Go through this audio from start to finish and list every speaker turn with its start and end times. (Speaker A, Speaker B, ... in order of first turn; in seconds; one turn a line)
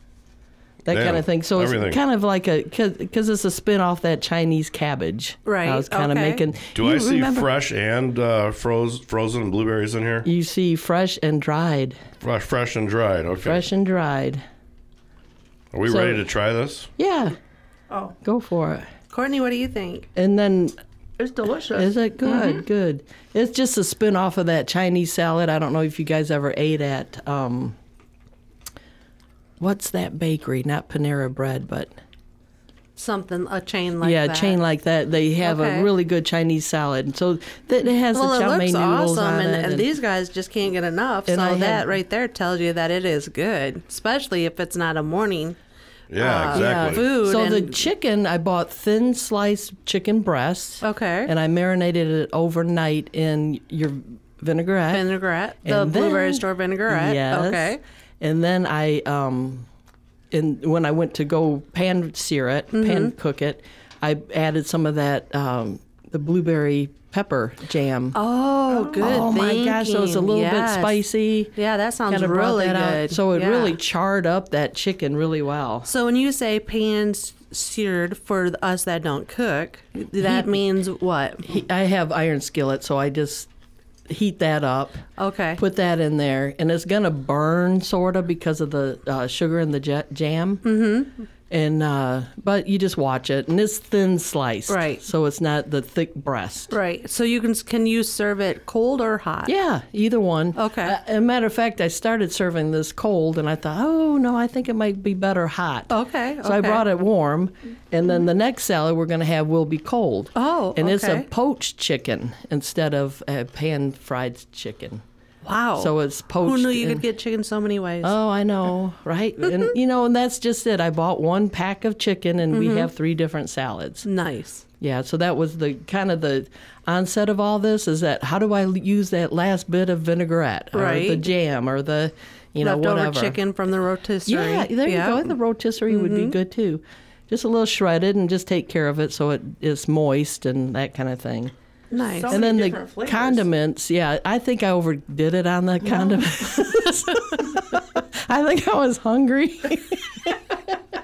Speaker A: 0.8-7.5
Speaker B: 0.9-2.0
Speaker C: 5.5-6.4
Speaker B: 6.8-10.3
Speaker A: 10.2-12.0
Speaker B: 12.2-13.7
Speaker A: 13.4-14.4
Speaker B: 15.7-16.9
Speaker A: 15.9-16.2
Speaker A: 17.0-17.4
Speaker D: 17.9-18.1
Speaker A: 18.2-18.9
Speaker C: 19.1-20.1
Speaker A: 20.2-20.8
Speaker D: 21.2-22.6
Speaker A: 21.7-27.8
Speaker A: 29.6-31.9
Speaker C: 33.0-34.6
Speaker A: 34.0-39.9
Speaker C: 35.4-35.9
Speaker C: 38.1-45.6
Speaker A: 41.3-41.9
Speaker B: 46.1-47.1
Speaker C: 46.2-47.8
Speaker A: 46.5-55.1
Speaker C: 50.8-51.3
Speaker C: 54.9-57.8
Speaker A: 55.6-59.7
Speaker A: 60.3-68.2
Speaker C: 62.7-63.1
Speaker C: 68.1-71.0
Speaker A: 68.7-71.5
Speaker C: 71.5-73.8
Speaker A: 72.1-75.9
Speaker C: 75.8-81.5
Speaker A: 80.2-80.5
Speaker A: 81.4-83.5
Speaker A: 84.1-85.0
Speaker C: 85.2-85.6
Speaker A: 85.6-90.7
Speaker C: 90.6-91.3
Speaker A: 91.5-96.7
Speaker C: 94.7-95.0
Speaker C: 96.7-99.5
Speaker A: 99.5-115.0
Speaker C: 100.5-101.0
Speaker C: 105.9-106.8
Speaker C: 110.3-111.3
Speaker C: 115.4-118.2
Speaker A: 115.8-117.0
Speaker A: 118.0-124.1
Speaker C: 122.5-122.9
Speaker C: 124.0-124.7
Speaker A: 124.8-133.4
Speaker C: 130.7-131.2
Speaker C: 132.6-135.3
Speaker A: 134.3-141.5
Speaker C: 135.9-136.3
Speaker C: 141.9-142.4
Speaker D: 141.9-143.5
Speaker A: 142.3-150.7
Speaker D: 145.9-146.2